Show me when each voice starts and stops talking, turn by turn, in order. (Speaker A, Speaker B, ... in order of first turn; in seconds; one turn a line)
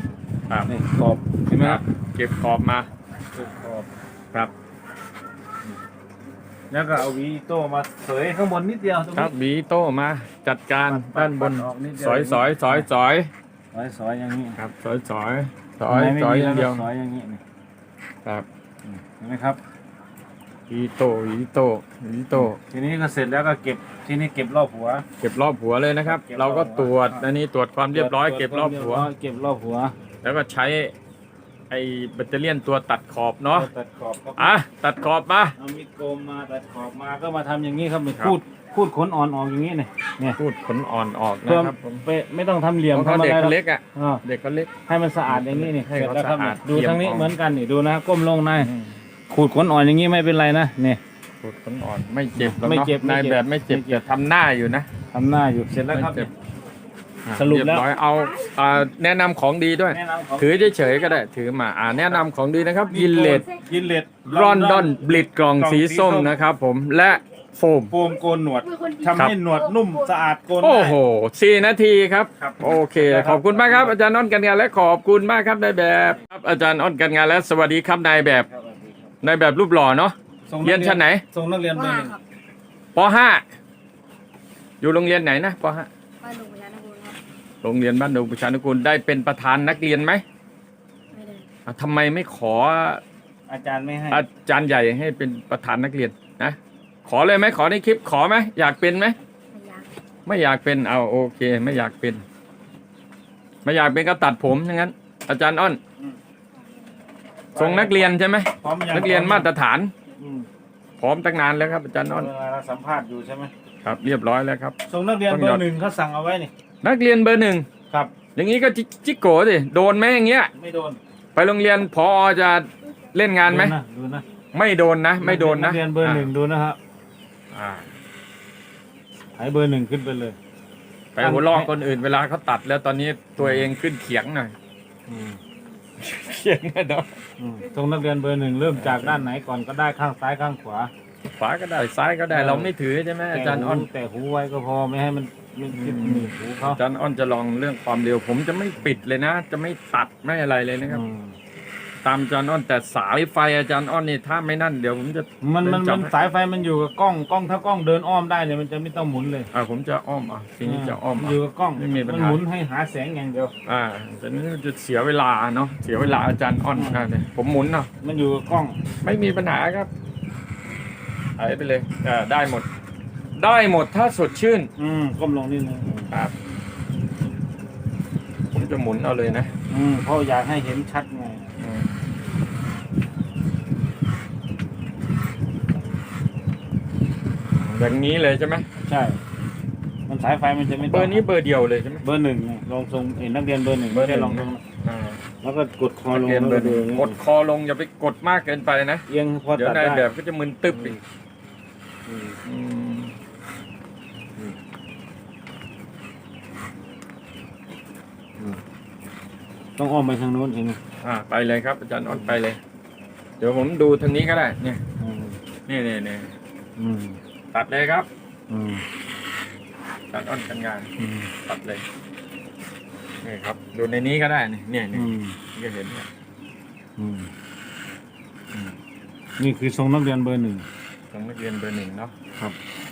Speaker A: 0.5-0.7
Speaker B: 0.7-1.8
Speaker A: 1.5-2.9
Speaker B: 3.3-3.9
Speaker B: 6.7-9.3
Speaker A: 9.2-13.3
Speaker B: 10.9-12.9
Speaker B: 13.7-14.6
Speaker A: 14.6-16.9
Speaker B: 15.9-17.4
Speaker B: 18.9-19.6
Speaker A: 20.7-22.6
Speaker B: 22.4-25.1
Speaker A: 25.2-29.1
Speaker B: 26.1-27.3
Speaker B: 27.9-29.9
Speaker A: 30.2-30.9
Speaker A: 31.7-33.7
Speaker B: 33.5-34.5
Speaker A: 34.4-35.5
Speaker B: 35.6-40.4
Speaker A: 40.4-42.0
Speaker B: 41.5-44.2
Speaker A: 42.9-44.7
Speaker B: 44.9-48.7
Speaker A: 45.3-47.4
Speaker A: 48.6-49.0
Speaker B: 49.3-51.0
Speaker A: 51.4-54.9
Speaker B: 52.4-54.0
Speaker B: 55.1-56.3
Speaker A: 55.9-56.3
Speaker A: 57.2-63.5
Speaker B: 57.3-57.9
Speaker B: 59.9-60.8
Speaker B: 62.9-66.3
Speaker A: 64.2-67.9
Speaker B: 67.9-71.0
Speaker C: 68.6-70.1
Speaker A: 70.6-78.5
Speaker B: 72.4-74.0
Speaker B: 78.5-79.1
Speaker A: 79.2-81.2
Speaker B: 80.5-82.1
Speaker C: 81.7-82.2
Speaker A: 83.0-83.5
Speaker A: 84.8-85.9
Speaker C: 86.2-87.2
Speaker A: 87.6-90.2
Speaker C: 91.1-91.5
Speaker A: 91.7-93.0
Speaker B: 93.5-94.2
Speaker A: 94.1-99.2
Speaker C: 99.5-99.9
Speaker A: 100.3-102.2
Speaker A: 103.7-105.8
Speaker B: 107.5-109.5
Speaker A: 107.6-109.9
Speaker B: 110.2-110.5
Speaker A: 111.0-112.3
Speaker B: 112.2-113.5
Speaker A: 113.8-114.8
Speaker B: 114.9-116.5
Speaker A: 115.3-115.6
Speaker A: 116.8-117.7
Speaker A: 118.4-120.5
Speaker B: 120.5-121.0
Speaker A: 121.3-123.8
Speaker B: 123.5-124.2
Speaker A: 124.5-126.3
Speaker B: 125.2-126.8
Speaker A: 127.5-127.9
Speaker B: 129.4-130.4
Speaker A: 131.2-134.5
Speaker B: 131.2-131.7
Speaker B: 133.4-133.7
Speaker B: 135.1-135.4
Speaker A: 136.0-137.2
Speaker B: 137.4-140.9
Speaker A: 138.7-139.3
Speaker A: 141.4-143.9
Speaker B: 142.3-142.7
Speaker B: 143.3-146.8
Speaker A: 145.7-151.0
Speaker B: 150.9-151.3
Speaker A: 152.0-156.1
Speaker B: 155.4-159.5
Speaker A: 159.5-162.4
Speaker B: 160.7-163.5
Speaker A: 163.7-167.9
Speaker B: 166.8-167.1
Speaker B: 168.0-168.8
Speaker A: 169.0-169.9
Speaker A: 171.4-172.7
Speaker A: 173.4-174.7
Speaker B: 174.8-176.1
Speaker A: 178.5-179.5
Speaker B: 179.7-181.5
Speaker A: 181.6-181.9
Speaker A: 187.6-188.7
Speaker B: 188.8-189.2
Speaker B: 190.1-191.2
Speaker A: 190.9-192.0
Speaker B: 192.0-194.6
Speaker A: 193.9-195.2
Speaker B: 195.4-197.2
Speaker A: 196.1-199.0
Speaker B: 199.1-200.1
Speaker A: 199.6-201.0
Speaker B: 200.7-201.0
Speaker B: 202.1-202.4
Speaker A: 202.4-203.2
Speaker B: 209.8-210.8
Speaker A: 211.0-212.6
Speaker A: 213.4-214.8
Speaker B: 215.0-215.4
Speaker A: 215.7-216.3
Speaker B: 216.8-217.2
Speaker A: 217.5-218.1
Speaker B: 218.5-218.8
Speaker A: 220.1-220.9
Speaker B: 221.0-221.3
Speaker A: 221.4-221.8
Speaker A: 223.2-226.1
Speaker B: 224.9-225.4
Speaker B: 227.0-227.3
Speaker B: 229.4-230.7
Speaker A: 231.1-232.1